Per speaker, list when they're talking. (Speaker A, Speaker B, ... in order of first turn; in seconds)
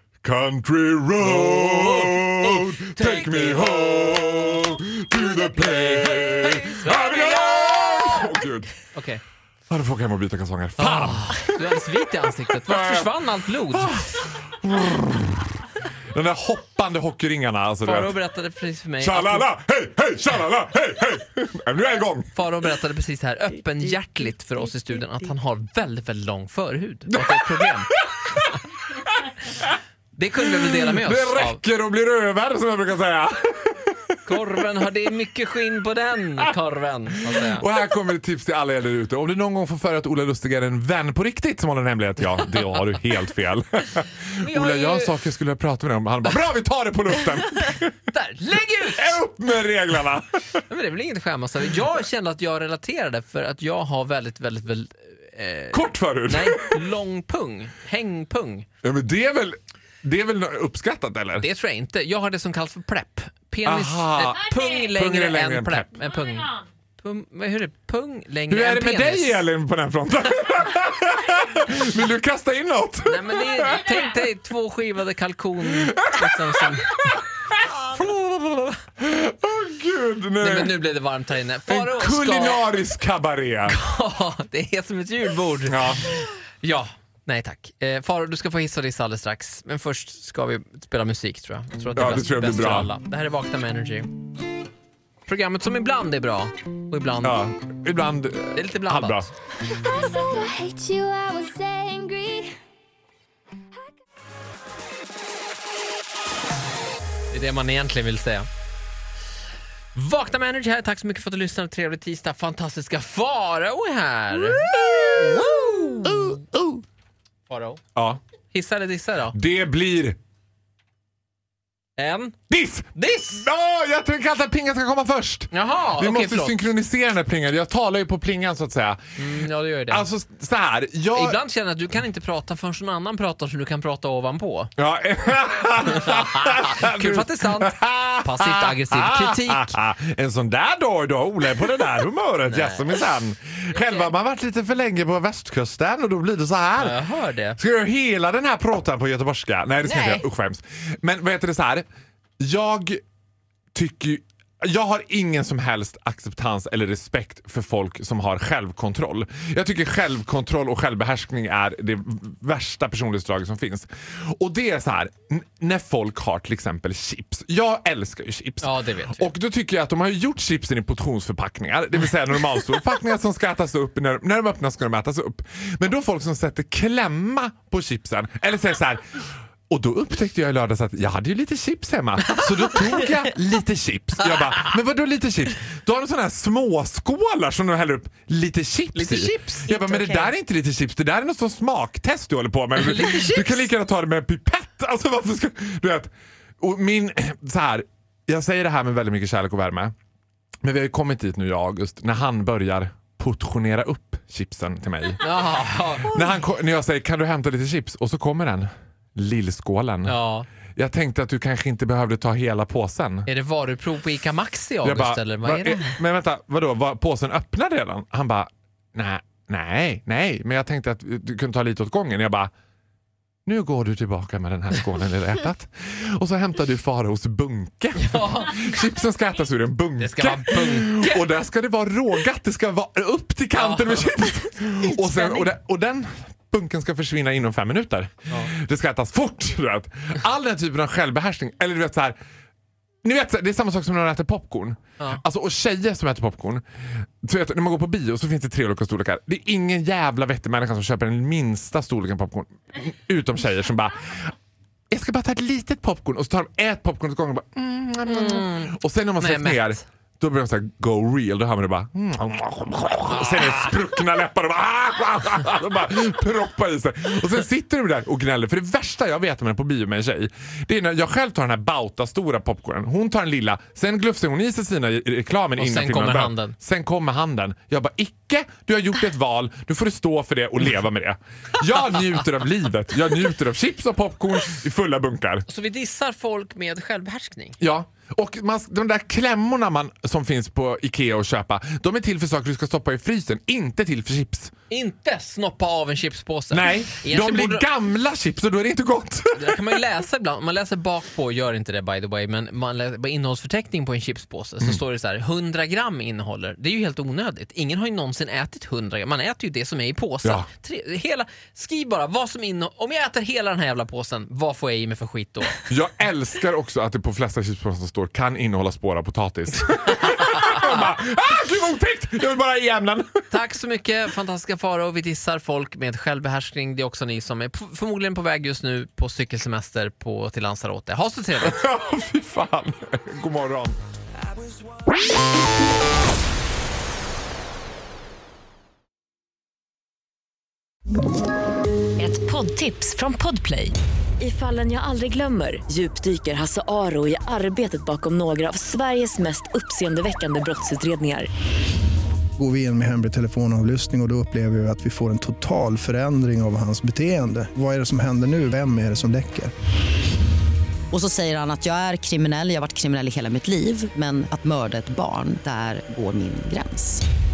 Speaker A: 0.2-8.7, 9.7-11.6, 12.7-18.2, 19.0-22.3, 27.1-29.8, 30.4-34.6, 37.3-48.0, 48.8-50.6, 55.7-56.9, 58.8-61.5, 63.6-65.9, 68.5-74.1, 75.7-77.2, 79.0-80.9, 81.7-83.8, 85.7-86.1, 92.0-92.9, 97.2-99.3, 114.4-116.8, 118.0-118.2, 119.3-120.2, 122.5-131.4, 134.8-147.0, 147.6-151.9, 152.4-153.0, 153.7-179.2, 179.7-196.1, 196.6-199.9, 200.6-205.3, 206.0-210.2, 210.8-213.3, 214.8-222.5, 223.5-242.2, 243.0-246.6, 247.2-254.3, 254.9-285.5, 287.6-294.5, 296.5-299.8, 315.7-323.2, 331.4-333.8
Speaker B: 1.2-3.9, 5.5-8.3, 8.9-9.2, 10.8-14.0, 17.8-19.5, 22.3-28.5, 30.1-31.6, 34.2-37.7, 44.4-45.1, 47.4-49.2, 50.7-58.7, 61.4-69.4, 73.0-77.1, 77.8-78.8, 80.4-82.8, 83.7-94.1, 95.3-97.4, 98.5-99.3, 107.3-108.5, 110.0-116.4, 117.5-117.8, 118.5-119.4, 122.0-122.4, 123.0-123.5, 125.5-126.7, 129.2-130.1, 131.1-134.7, 135.9-139.8, 142.5-143.0, 143.7-144.1, 146.8-147.6, 149.9-150.2, 168.6-169.3, 182.3-183.2, 184.3-184.7, 188.9-190.3, 192.8-193.7, 205.2-206.2, 210.1-210.5, 213.3-216.0, 228.0-228.8, 230.0-231.2, 233.6-235.5, 258.1-259.8, 275.6-276.6, 285.5-287.6, 294.7-297.7, 299.4-315.6, 323.3-331.6
Speaker C: 99.8-102.5
Speaker D: 342.0-351.3
Speaker E: 352.4-359.5
Speaker F: 360.9-367.0